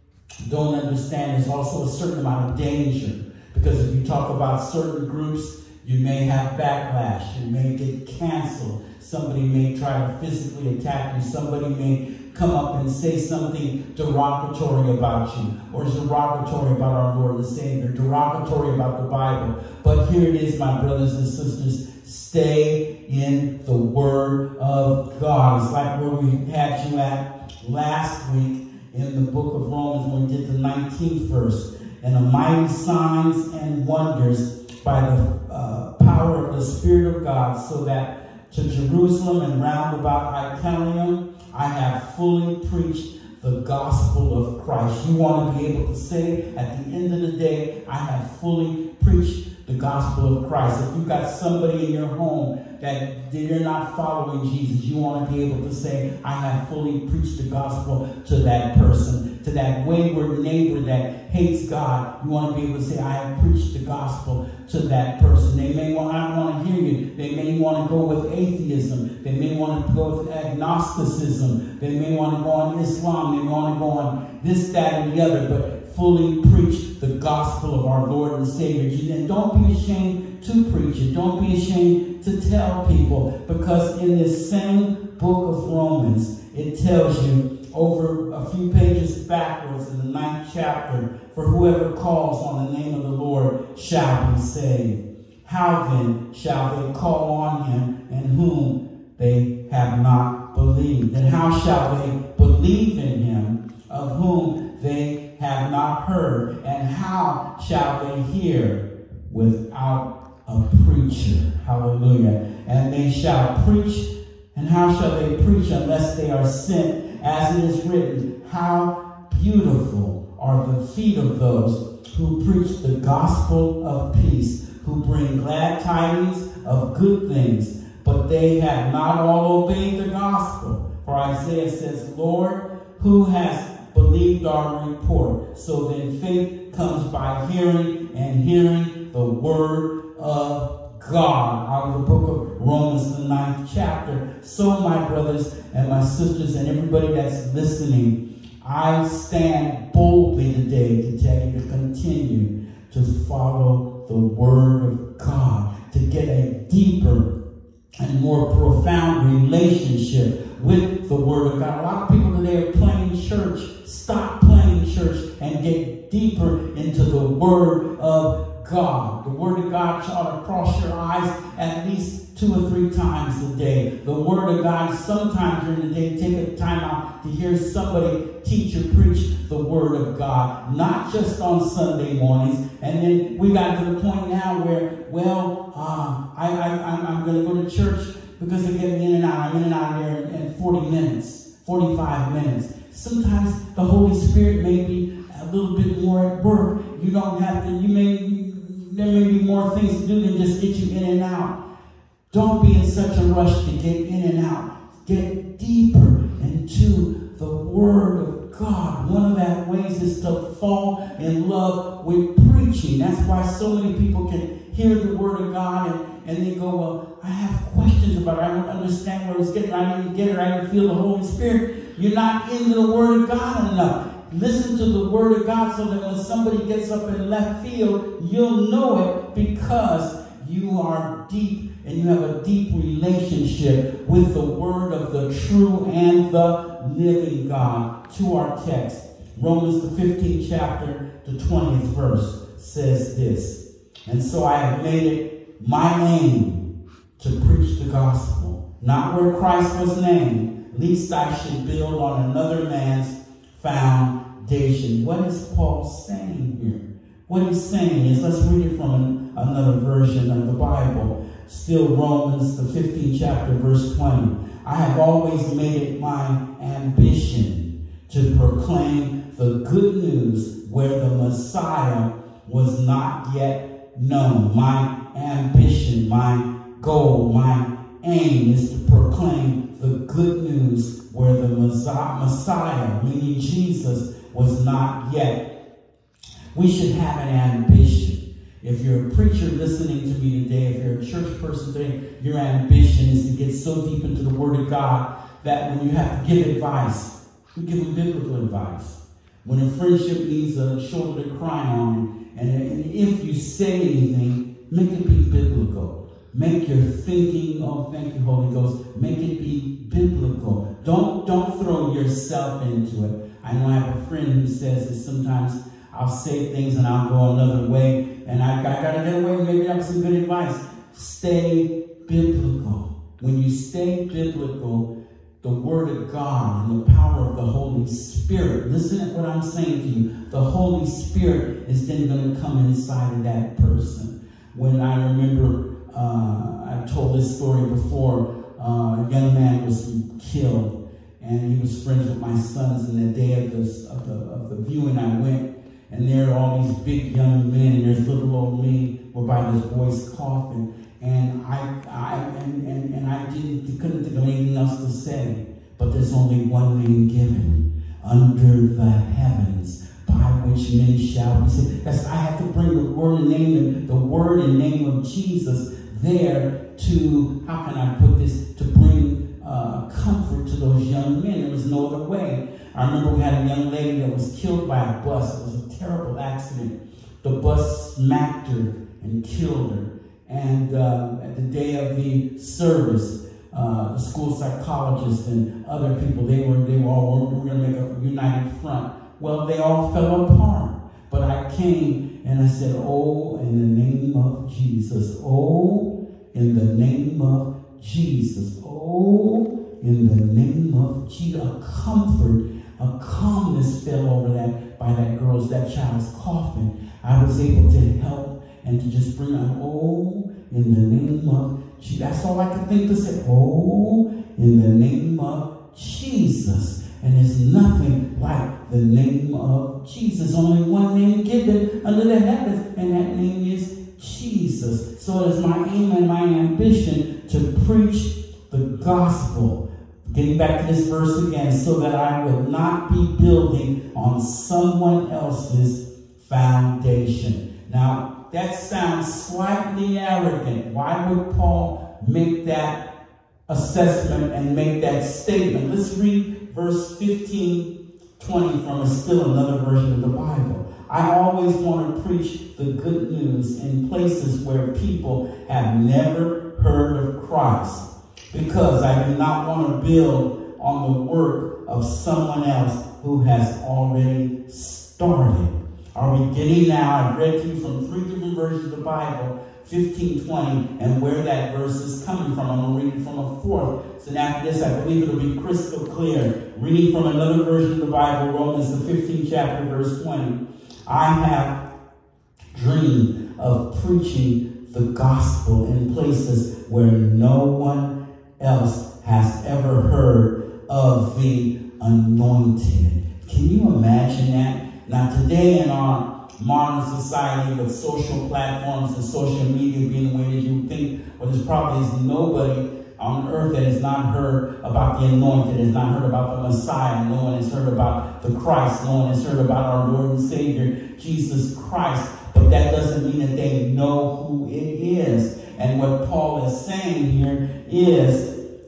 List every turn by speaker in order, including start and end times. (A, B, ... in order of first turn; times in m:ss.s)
0:00.4-2:37.3 A
2:38.0-3:21.5 A
3:22.3-4:06.6 A
4:07.2-4:45.4 A
4:46.5-5:24.9 A
5:25.4-7:22.8 A
7:23.5-8:01.6 A
8:02.5-8:38.3 A